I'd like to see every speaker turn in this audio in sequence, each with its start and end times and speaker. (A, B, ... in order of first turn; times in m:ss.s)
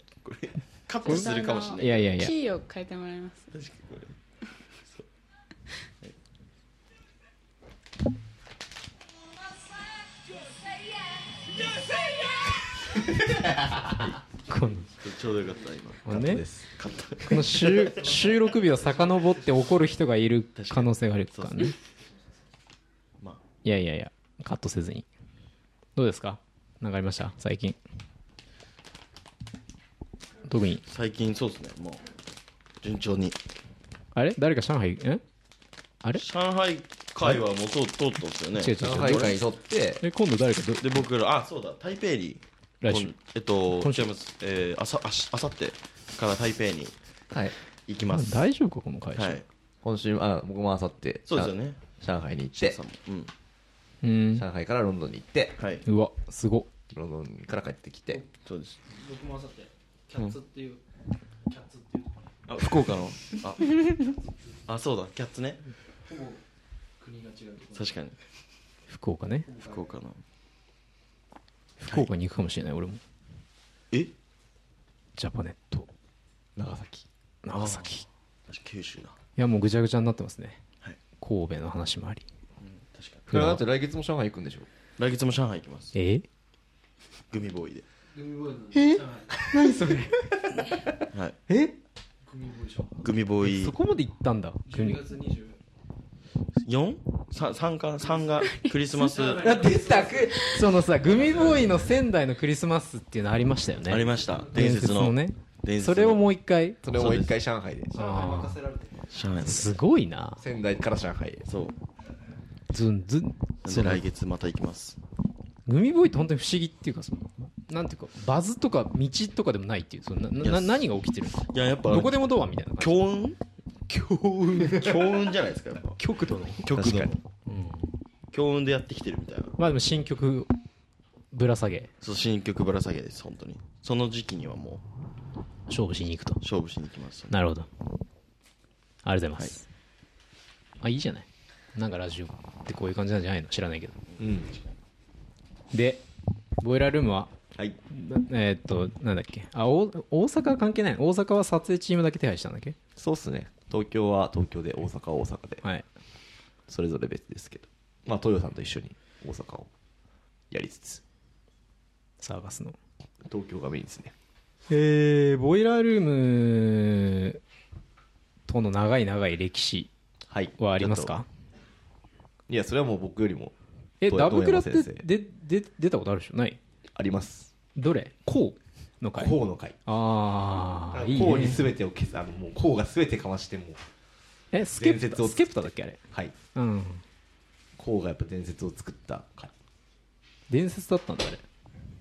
0:00.2-0:02.1 A
0:01.0-0:03.5 B
0:01.0-0:02.3 C
0:03.5-0:04.2 A
0:13.8-0:14.9 C
0:14.9-0:18.2 A
0:16.1-0:16.4 C
0:16.1-0:16.7 D
0:17.2-0:21.8 C
0:20.6-0:21.7 A
0:23.6-0:25.1 C
0:26.0-0:27.8 C
0:30.5-0:30.8 C
0:30.8-0:32.1 A
0:32.8-0:33.4 A
0:34.2-0:35.2 C
0:36.2-0:39.3 A
0:38.6-0:39.4 C
0:38.8-0:40.0 D
0:40.0-0:41.0 C
0:40.8-0:46.9 A
0:42.8-0:43.2 C
0:43.7-0:44.1 C
0:47.9-0:48.4 A
0:48.1-0:49.4 C
0:49.2-0:49.4 A
0:49.8-0:52.8 D
0:51.3-0:51.8 A
0:52.6-0:53.3 A
0:54.0-0:54.4 C
0:54.4-0:55.6 D
0:55.6-0:55.8 A
0:55.8-0:56.7 C
0:56.9-0:58.2 D
0:58.4-0:58.8 A
0:58.9-1:00.8 E
1:01.5-1:02.3 E
1:02.5-1:04.1 A
1:04.7-1:05.7 A
1:06.1-1:06.4 E
1:07.0-1:07.9 E
1:07.7-1:08.2 A
1:08.9-1:09.5 C
1:09.5-1:09.9 E
1:09.6-1:10.2 A
1:11.8-1:13.0 C
1:15.2-1:15.9 C
1:16.6-1:17.1 D
1:17.4-1:18.0 C
1:17.6-1:17.8 A
1:18.5-1:19.2 A
1:19.4-1:20.6 C
1:21.2-1:22.2 C
1:22.6-1:23.3 A
1:23.3-1:24.7 D
1:23.3-1:23.6 C
1:25.0-1:25.9 A
1:25.9-1:26.2 C
1:27.3-1:27.8 A
1:28.1-1:29.6 E
1:28.7-1:30.7 C
1:31.5-1:31.7 C
1:32.2-1:33.0 E
1:33.0-1:33.7 A
1:33.4-1:35.0 C
1:34.7-1:35.6 E
1:36.6-1:39.7 A
1:38.9-1:40.5 E
1:39.4-1:46.8 C
1:43.9-1:46.3 A
1:46.8-1:47.9 D
1:46.9-1:47.3 A
1:47.9-1:49.0 E
1:47.9-1:48.6 C
1:49.1-1:49.8 A
1:49.4-1:50.4 C
1:50.4-1:51.5 D
1:51.5-1:51.8 A
1:52.7-1:54.0 C
1:53.6-1:55.0 A
1:55.7-2:03.0 C
2:00.4-2:00.8 A
2:01.3-2:03.4 A
2:03.9-2:05.2 C
2:04.6-2:06.0 A
2:06.0-2:07.9 C
2:06.6-2:07.2 A
2:06.7-2:07.1 D
2:08.3-2:09.6 A
2:09.6-2:10.5 C
2:11.3-2:11.9 C
2:12.0-2:14.8 A
2:15.7-2:16.4 C
2:16.4-2:17.3 A
2:17.3-2:17.7 C
2:19.0-2:19.7 C
2:20.8-2:24.0 C
2:24.1-2:24.7 A
2:24.2-2:24.5 D
2:25.7-2:26.0 C
2:26.6-2:27.3 C
2:27.9-2:32.8 C
2:33.0-2:35.6 D
2:36.7-2:39.7 D
2:40.5-2:41.0 D
2:42.2-2:42.8 C
2:43.2-2:44.1 D
2:44.7-2:47.4 C
2:48.5-2:49.9 C
2:50.3-2:51.2 D
2:50.6-2:51.2 C
2:52.5-2:55.1 D
2:54.0-2:56.6 C
2:56.9-2:57.5 D
2:57.8-3:01.7 C
2:59.2-2:59.8 D
3:00.9-3:03.8 D
3:04.5-3:06.0 C
3:04.8-3:06.3 D
3:06.6-3:07.0 C
3:07.8-3:09.5 D
3:10.5-3:11.4 C